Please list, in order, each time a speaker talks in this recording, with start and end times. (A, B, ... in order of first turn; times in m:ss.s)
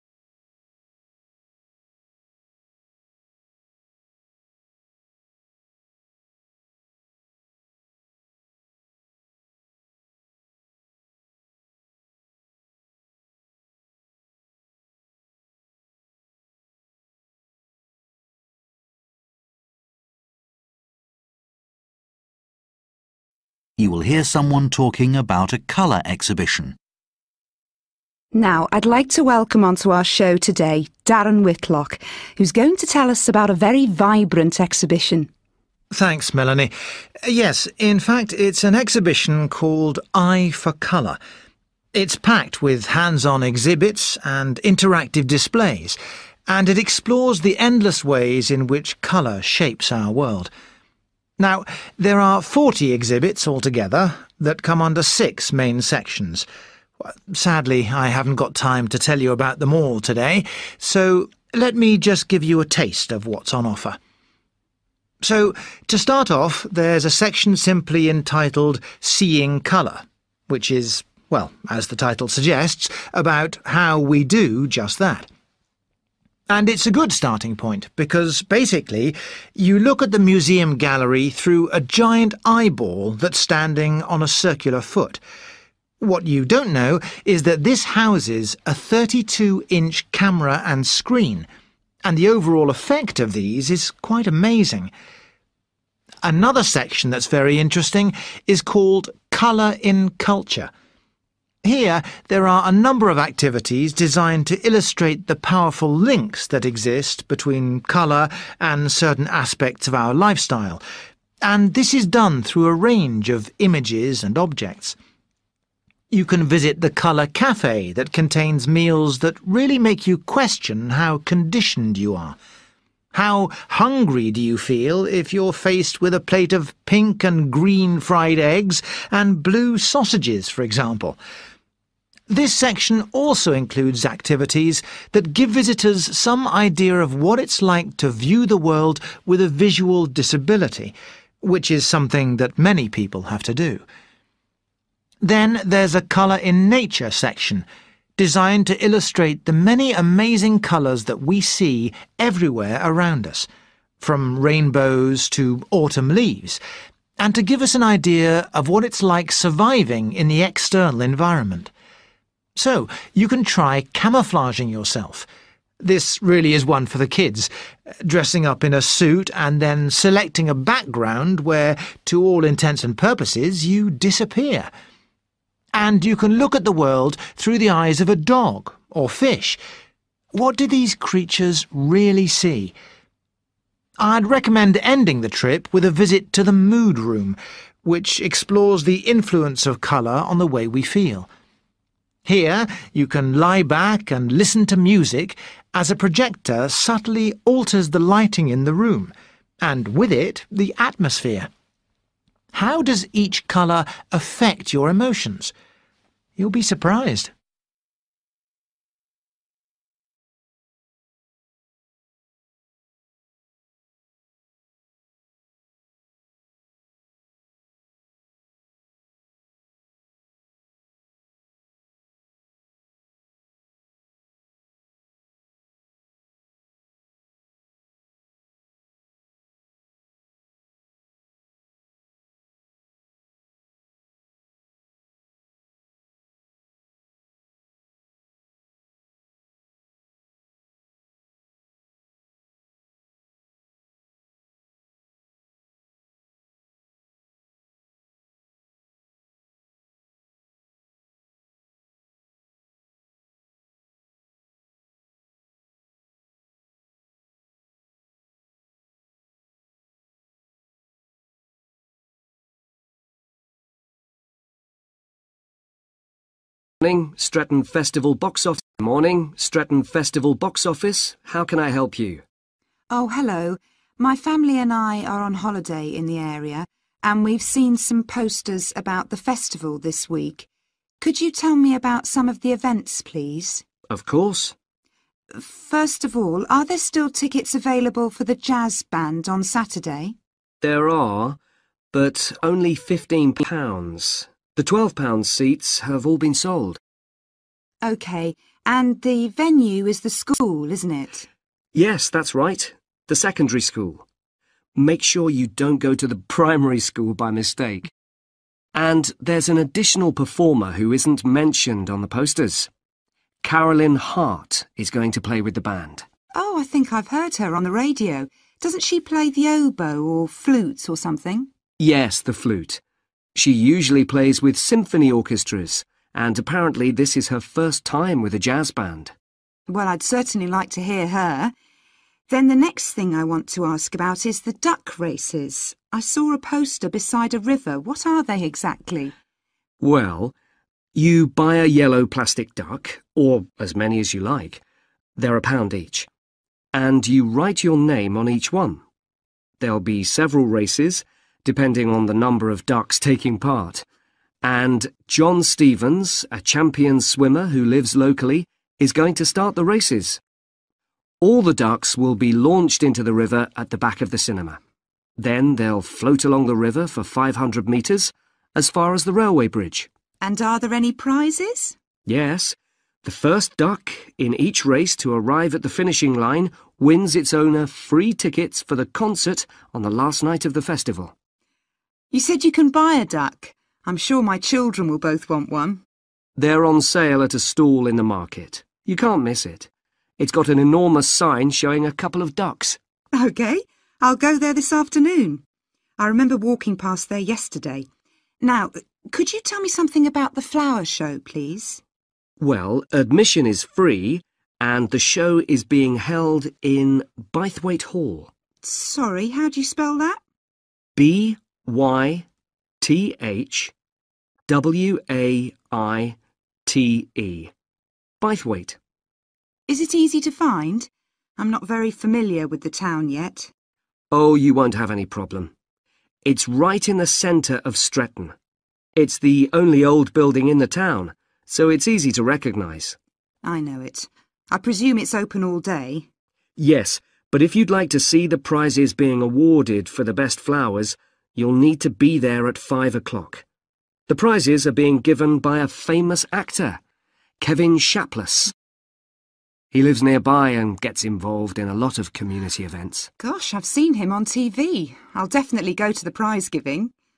0:23.8-0:26.8 A
0:28.3-0:35.3 B
0:35.9-0:36.7 C
0:37.2-0:41.2 C
0:41.9-0:50.5 C
0:51.4-0:56.4 C
0:57.0-1:04.0 C
1:05.2-1:15.3 C
1:16.5-1:25.2 C
1:26.0-1:31.5 C
1:32.0-1:34.9 C
1:36.2-1:40.7 C
1:41.6-1:50.8 C
1:51.4-1:55.0 C
1:56.1-2:02.4 C
2:03.1-2:11.2 C
2:12.3-2:23.8 C
2:25.2-2:27.6 C
2:28.2-2:33.5 C
2:34.0-2:36.6 C
2:37.2-2:41.7 C
2:42.6-2:45.3 C
2:45.8-2:47.5 C
2:48.0-2:54.7 C
2:55.7-2:59.6 C
3:00.3-3:02.7 C
3:04.0-3:11.3 C
3:12.2-3:21.5 C
3:22.5-3:25.5 C
3:26.4-3:27.3 C
4:26.8-4:32.2 D
4:32.9-4:40.5 B
4:41.0-4:43.6 B
4:43.9-4:44.5 D
4:45.3-4:50.1 B
4:50.6-4:51.4 D
4:51.9-4:56.8 D
4:57.8-5:01.3 B
5:01.7-5:04.0 D
5:04.7-5:07.9 D
5:08.7-5:12.7 D
5:13.4-5:16.0 D
5:16.3-5:21.5 B
5:21.8-5:22.8 D
5:23.3-5:29.1 D
5:29.7-5:31.5 B
5:32.3-5:39.1 B
5:39.8-5:40.3 D
5:40.9-5:44.6 D
5:45.2-5:46.1 D
5:46.7-5:48.8 D
5:49.6-5:53.8 D
5:54.4-6:00.2 D
6:01.2-6:04.6 D
6:05.2-6:09.9 D
6:10.2-6:11.8 B
6:12.0-6:21.1 D
6:22.1-6:25.8 B
6:26.4-6:32.8 D
6:33.1-6:35.4 B
6:36.0-6:37.9 B
6:38.4-6:41.8 B
6:42.4-6:48.3 D
6:48.6-6:50.2 B
6:51.0-6:52.2 D
6:52.8-6:53.7 D
6:54.5-6:57.5 D
6:58.2-6:58.8 D
6:59.7-7:03.5 B
7:04.1-7:05.5 D
7:06.2-7:08.3 D
7:09.0-7:13.0 D
7:13.4-7:16.1 B
7:16.6-7:23.4 D
7:24.1-7:26.8 D
7:27.4-7:28.5 D
7:29.7-7:33.1 D
7:33.2-7:36.9 B